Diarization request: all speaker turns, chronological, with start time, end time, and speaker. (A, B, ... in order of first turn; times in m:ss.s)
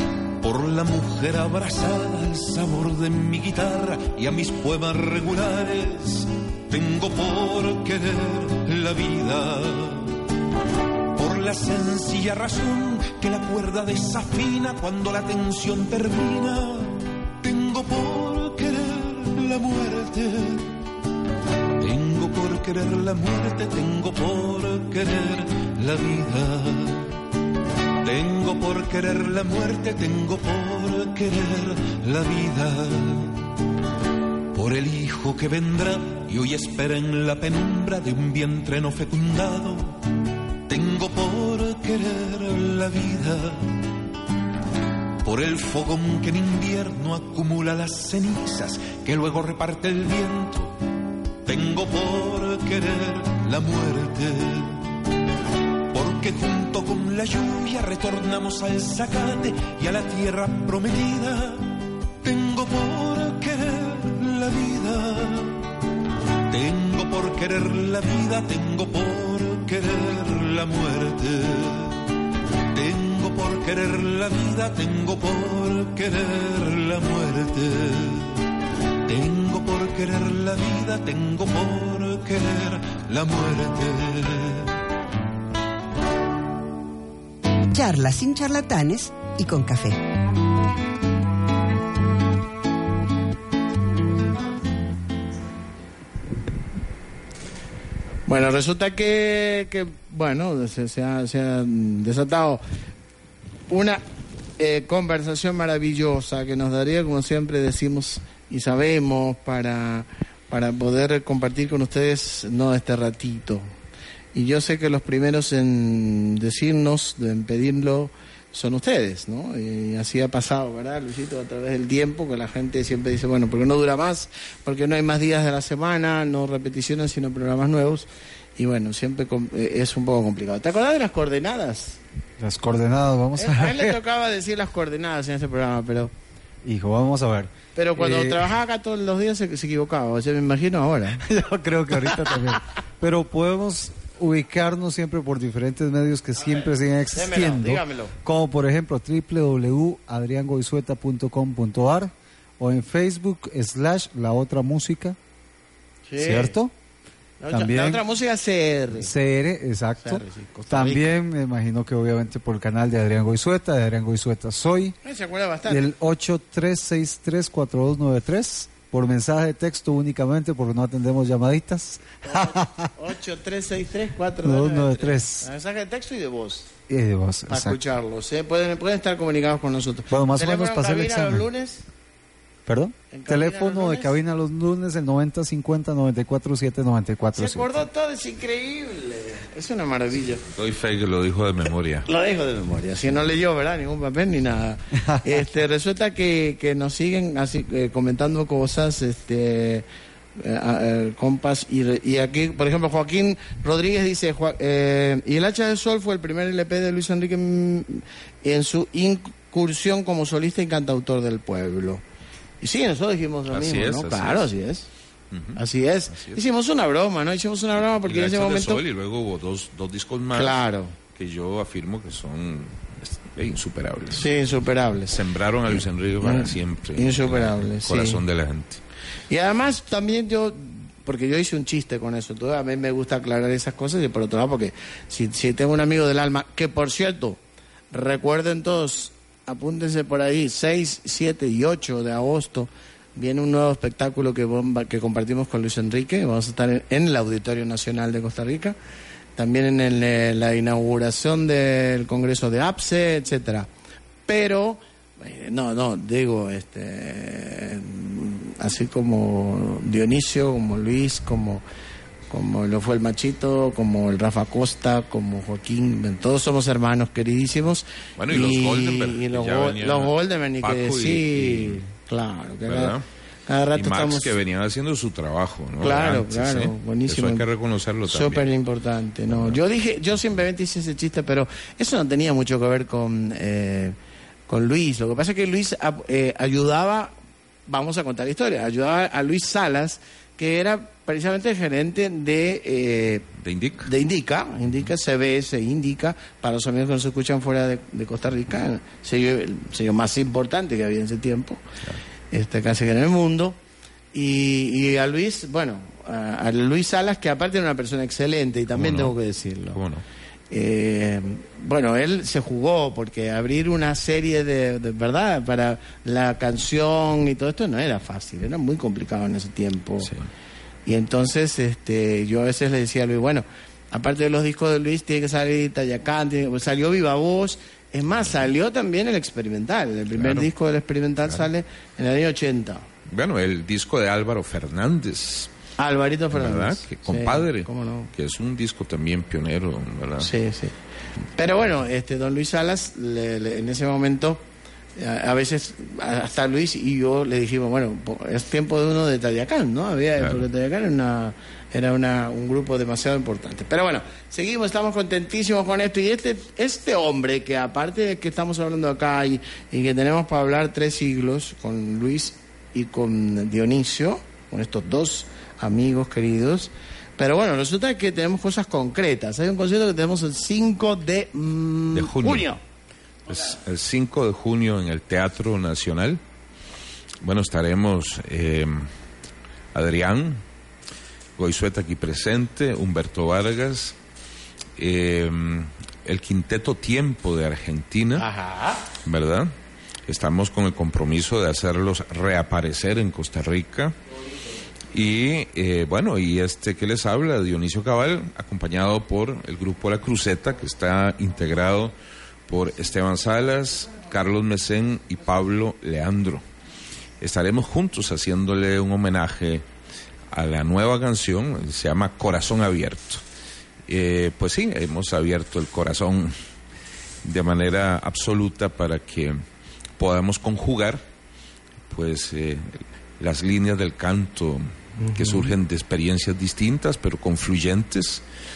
0:00.4-0:10.2 A
0:11.1-0:20.7 A
0:21.8-0:27.1 A
0:28.0-0:33.4 A
0:34.5-0:40.0 A
0:40.7-0:43.7 A
0:45.2-0:50.8 A
0:51.4-0:54.8 A
0:55.9-1:05.6 A
1:06.5-1:12.1 A
1:12.7-1:18.4 A
1:19.1-1:24.7 A
1:27.7-1:30.0 B
1:38.3-1:42.6 C
1:43.7-1:44.0 C
1:44.6-1:53.7 C
1:54.3-2:12.0 C
2:12.4-2:14.0 D
2:13.4-2:16.1 C
2:16.6-2:18.5 D
2:17.8-2:21.2 C
2:21.2-2:35.2 D
2:22.0-2:22.4 C
2:26.4-2:28.2 C
2:36.1-2:36.6 C
2:36.2-2:36.7 D
2:37.4-2:39.1 C
2:37.5-2:38.0 D
2:39.0-2:45.0 D
2:40.0-2:41.2 C
2:45.0-2:45.9 C
2:45.7-2:52.9 D
2:52.2-2:56.7 C
2:54.4-2:55.5 D
2:56.9-2:57.8 D
2:57.5-3:01.8 C
3:00.1-3:01.5 D
3:02.7-3:07.8 D
3:03.1-3:04.2 C
3:07.3-3:10.4 C
3:10.5-3:12.1 E
3:12.1-3:19.9 C
3:20.4-3:32.0 C
3:32.6-3:34.9 C
3:33.5-3:34.5 E
3:35.3-3:36.4 E
3:35.6-3:38.8 C
3:38.0-3:40.6 E
3:40.3-3:41.0 C
3:41.1-3:44.3 E
3:44.1-3:45.2 C
3:45.1-3:48.8 E
3:46.2-3:48.2 C
3:49.3-3:57.4 C
3:57.9-4:08.8 C
4:09.4-4:13.7 C
4:14.3-4:21.6 C
4:22.3-4:33.0 C
4:28.2-4:31.8 E
4:32.7-4:33.0 E
4:33.5-4:34.3 C
4:33.8-4:38.5 E
4:35.8-4:37.5 C
4:38.1-4:44.0 C
4:39.3-4:39.6 E
4:44.5-4:47.1 C
4:47.7-4:53.3 C
4:53.4-4:53.9 E
4:53.8-5:01.6 C
5:02.3-5:03.6 C
5:04.1-5:09.8 C
5:08.7-5:09.2 E
5:09.7-5:10.0 E
5:10.5-5:20.1 C
5:20.0-5:20.3 E
5:20.9-5:32.8 C
5:30.1-5:30.5 E
5:33.1-5:35.5 E
5:35.8-5:38.1 C
5:36.3-5:40.3 E
5:40.2-5:40.8 C
5:41.4-5:44.4 C
5:45.0-6:12.6 C
6:11.9-6:12.5 E
6:13.3-6:16.2 E
6:17.2-6:18.9 E
6:19.7-6:20.4 E
6:21.4-6:24.0 E
6:24.8-6:28.3 E
6:28.2-6:28.8 C
6:29.0-6:29.5 E
6:30.1-6:34.0 E
6:34.9-6:41.9 E
6:42.5-6:46.4 E
6:47.2-6:49.6 E
6:50.3-6:53.2 E
6:53.9-6:56.3 E
6:57.2-6:59.4 E
7:00.0-7:01.0 E
7:01.9-7:08.2 E
7:05.0-7:05.5 C